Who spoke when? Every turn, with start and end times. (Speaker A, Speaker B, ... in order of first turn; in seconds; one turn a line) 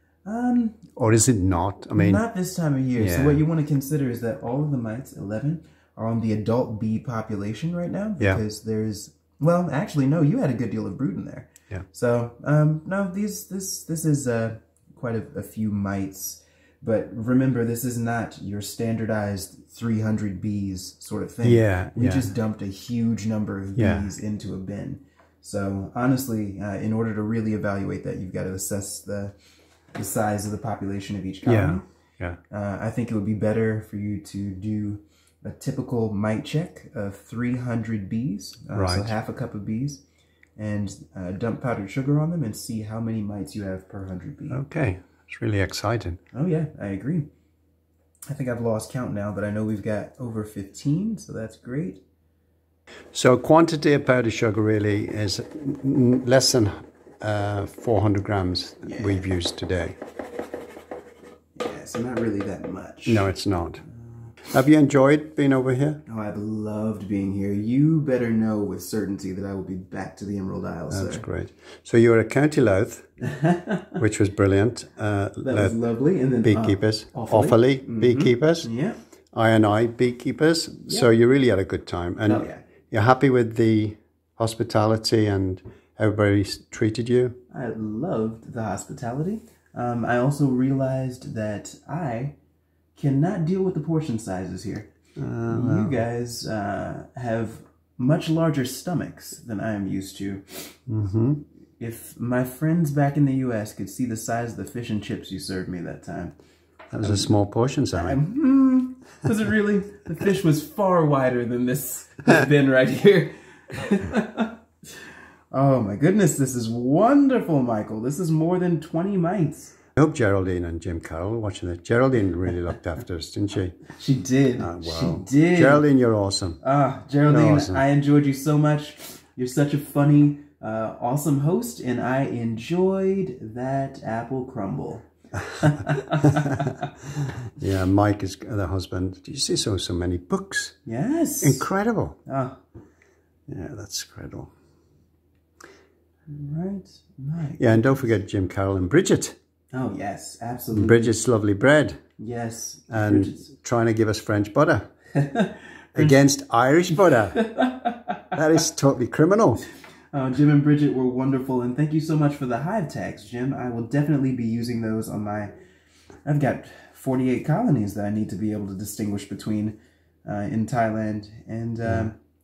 Speaker A: 0.2-0.9
Speaker B: 0.9-2.2
Speaker A: 1.9-29.3
Speaker B: 3.0-3.4
Speaker B: 21.4-22.3
Speaker B: 23.8-24.1
Speaker A: 29.9-31.8
Speaker B: 31.4-32.4
Speaker A: 32.5-40.0
Speaker B: 38.7-39.1
Speaker A: 40.6-44.6
Speaker B: 44.5-46.2
Speaker A: 46.3-47.3
Speaker A: 48.3-52.0
Speaker B: 53.1-60.0
Speaker A: 58.8-59.3
Speaker A: 61.5-63.3
Speaker B: 63.0-63.8
Speaker A: 63.8-64.4
Speaker B: 64.5-66.0
Speaker A: 66.0-71.2
Speaker B: 70.9-73.1
Speaker A: 73.2-74.0
Speaker B: 74.0-75.8
Speaker A: 75.4-79.0
Speaker B: 76.4-78.7
Speaker B: 79.3-87.4
Speaker A: 82.2-82.6
Speaker A: 87.5-92.3
Speaker A: 92.9-94.9
Speaker B: 95.2-96.0
Speaker A: 95.5-100.8
Speaker B: 100.9-101.4
Speaker A: 101.8-106.3
Speaker B: 106.9-108.2
Speaker A: 107.0-107.3
Speaker A: 107.9-114.6
Speaker A: 115.5-119.8
Speaker B: 120.0-123.8
Speaker A: 123.9-125.8
Speaker B: 124.6-126.6
Speaker A: 126.6-135.1
Speaker B: 127.3-127.8
Speaker A: 135.6-136.9
Speaker B: 137.6-140.8
Speaker A: 140.8-141.7
Speaker B: 141.4-142.2
Speaker A: 142.2-142.6
Speaker B: 143.5-144.5
Speaker A: 146.3-148.1
Speaker B: 147.6-149.3
Speaker A: 149.7-151.1
Speaker B: 150.7-152.0
Speaker A: 152.2-153.5
Speaker B: 152.9-154.9
Speaker A: 155.1-156.1
Speaker B: 155.9-157.4
Speaker A: 157.3-158.4
Speaker B: 158.3-159.6
Speaker A: 160.1-165.5
Speaker A: 166.2-172.2
Speaker B: 171.8-172.1